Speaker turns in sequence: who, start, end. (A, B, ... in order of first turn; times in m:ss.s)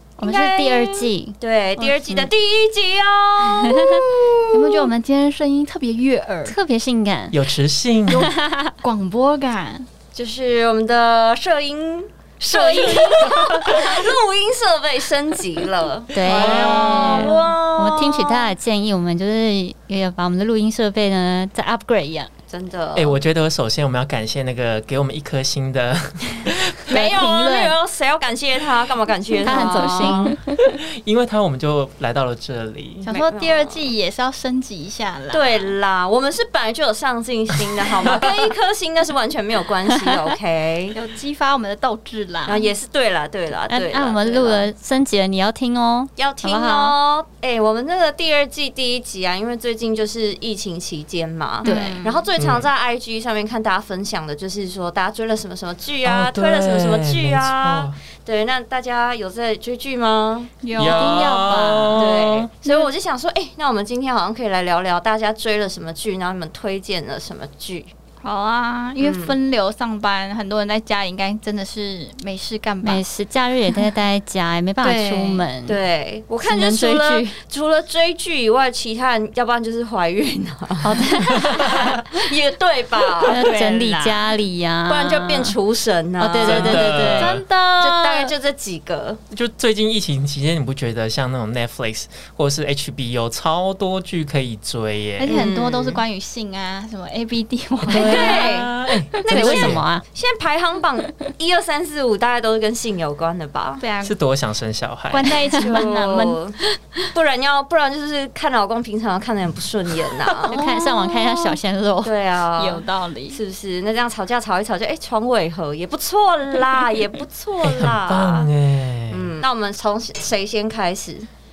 0:00.2-0:04.9 A
0:00.2-0:02.3 B
0:03.4-0:04.0 B
0:04.5-0:06.6 C
0:06.5-0:07.4 B
0:07.3-0:08.3 D
0:08.1-0:09.9 C
0:08.1-0:08.7 B
0:10.1-0:18.5 A
0:12.5-0:12.9 C
0:12.8-0:14.0 B
0:13.4-0:13.8 D
0:16.1-0:22.3 B
0:16.2-0:17.0 D
0:16.4-0:17.4 C
0:22.5-0:23.2 A
0:22.9-0:26.9 D
0:26.9-0:30.3 A
0:26.9-0:27.7 B
0:29.4-0:30.4 B
0:29.4-0:30.3 C
0:30.4-0:33.1 D
0:33.0-0:35.7 C
0:33.1-0:33.9 A
0:35.3-0:41.0 A
0:40.9-0:42.7 C
0:42.4-0:44.6 A
0:43.7-0:46.9 B
0:46.2-1:00.5 A
0:51.6-0:52.2 C
0:51.6-0:52.0 B
0:52.4-0:52.7 D
0:56.0-0:58.0 D
1:00.6-1:01.3 C
1:00.7-1:02.5 D
1:00.8-1:02.1 B
1:02.0-1:07.9 A
1:08.2-1:13.0 C
1:09.0-1:09.4 A
1:12.8-1:15.8 B
1:14.8-1:15.4 C
1:15.6-1:21.0 A
1:16.4-1:17.4 B
1:20.8-1:22.0 B
1:21.4-1:22.0 D
1:21.6-1:23.5 A
1:23.2-1:24.3 C
1:23.2-1:25.6 B
1:24.9-1:27.1 A
1:26.2-1:27.4 B
1:26.4-1:27.4 D
1:27.1-1:28.3 C
1:27.8-1:29.2 A
1:29.3-1:35.4 D
1:35.2-1:38.6 C
1:35.2-1:36.0 A
1:37.8-1:39.8 D
1:37.9-1:43.8 A
1:39.3-1:40.0 B
1:43.8-1:44.1 C
1:44.0-1:45.4 D
1:45.1-1:46.4 C
1:45.6-1:46.6 A
1:47.1-1:50.6 A
1:50.5-1:52.1 B
1:50.5-1:51.6 C
1:52.0-1:58.5 A
1:52.6-1:53.4 C
1:57.6-1:59.3 D
1:59.1-2:01.3 A